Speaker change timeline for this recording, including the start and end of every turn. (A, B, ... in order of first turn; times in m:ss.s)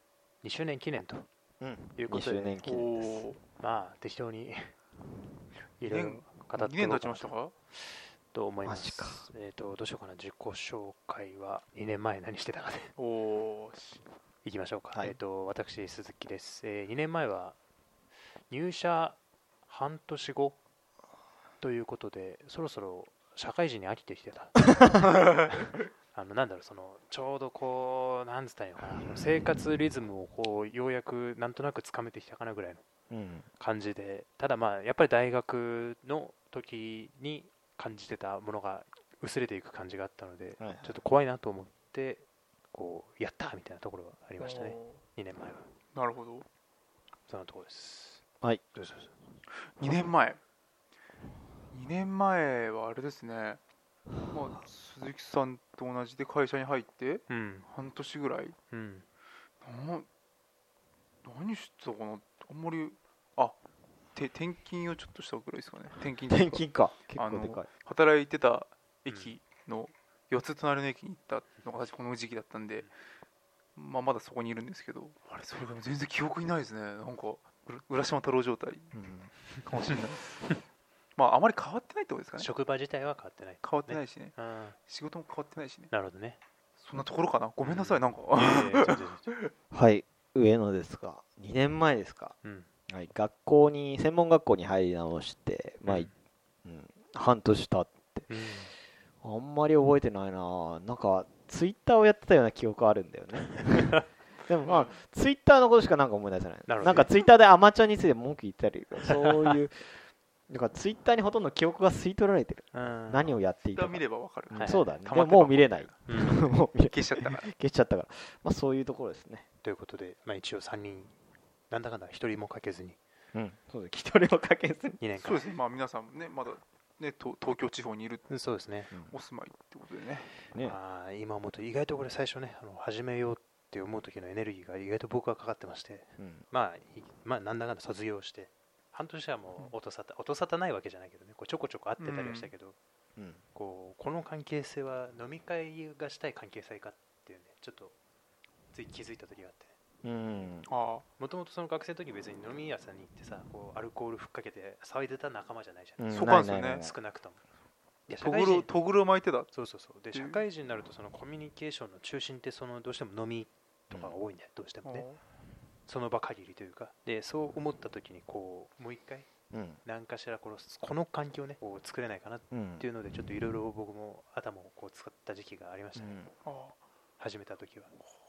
0:00.4-0:01.3 A
0:01.6-0:03.2 B
0:02.0-0:04.8 A
0:02.6-0:03.4 C
0:05.8-0:12.9 A
0:05.9-0:07.5 C
0:08.6-0:09.3 B
0:13.0-0:14.0 C
0:14.4-0:17.6 A
0:14.9-0:15.2 B
0:18.5-0:20.6 A
0:21.6-0:25.0 A
0:25.5-0:32.8 A
0:33.1-0:33.5 B
0:33.6-0:45.7 A
0:40.6-0:41.0 B
0:44.4-0:45.0 C
0:46.0-0:46.5 C
0:47.3-0:48.2 A
0:48.7-0:49.1 A
0:49.7-0:50.4 C
0:51.7-0:53.6 C
0:54.3-0:58.6 C
0:57.3-0:57.7 A
0:58.7-0:59.1 A
0:59.6-1:00.1 C
1:01.2-1:03.6 C
1:04.2-1:12.9 C
1:06.3-1:07.7 B
1:09.1-1:09.4 A
1:13.8-1:18.9 C
1:18.9-1:19.3 B
1:19.6-1:20.5 C
1:21.2-1:22.5 C
1:22.4-1:24.8 A
1:23.6-1:24.4 C
1:24.9-1:25.9 C
1:25.9-1:26.4 A
1:26.8-1:29.5 C
1:27.6-1:29.3 A
1:29.7-1:32.4 B
1:32.4-1:32.7 A
1:32.9-1:36.1 B
1:35.8-1:36.1 A
1:36.6-1:38.3 B
1:38.3-1:38.7 A
1:39.2-1:49.9 B
1:44.6-1:45.0 C
1:46.7-1:47.1 A
1:50.5-1:59.5 B
1:52.7-1:53.4 A
1:53.7-1:56.1 C
1:54.5-1:54.9 A
1:56.1-1:56.5 A
1:56.7-1:57.5 C
1:59.6-2:01.1 A
2:01.7-2:03.0 A
2:03.3-2:05.0 B
2:05.0-2:05.5 A
2:05.2-2:08.3 C
2:08.3-2:08.9 A
2:09.1-2:10.3 C
2:10.5-2:10.8 B
2:10.6-2:22.8 A
2:16.2-2:16.4 B
2:22.0-2:22.5 C
2:23.2-2:23.4 B
2:23.5-2:28.0 A
2:28.7-2:29.7 A
2:30.0-2:30.7 B
2:30.7-2:31.0 C
2:31.2-2:37.4 A
2:36.0-2:36.9 B
2:36.1-2:36.9 C
2:38.1-2:38.7 A
2:38.2-2:39.5 C
2:39.5-2:45.1 A
2:40.1-2:40.4 C
2:43.9-2:44.2 B
2:44.8-2:45.2 C
2:45.9-2:49.3 A
2:49.5-2:49.8 B
2:49.8-2:56.2 A
2:52.5-2:52.9 B
2:56.0-2:56.3 B
2:56.4-2:56.8 C
2:57.2-2:57.9 A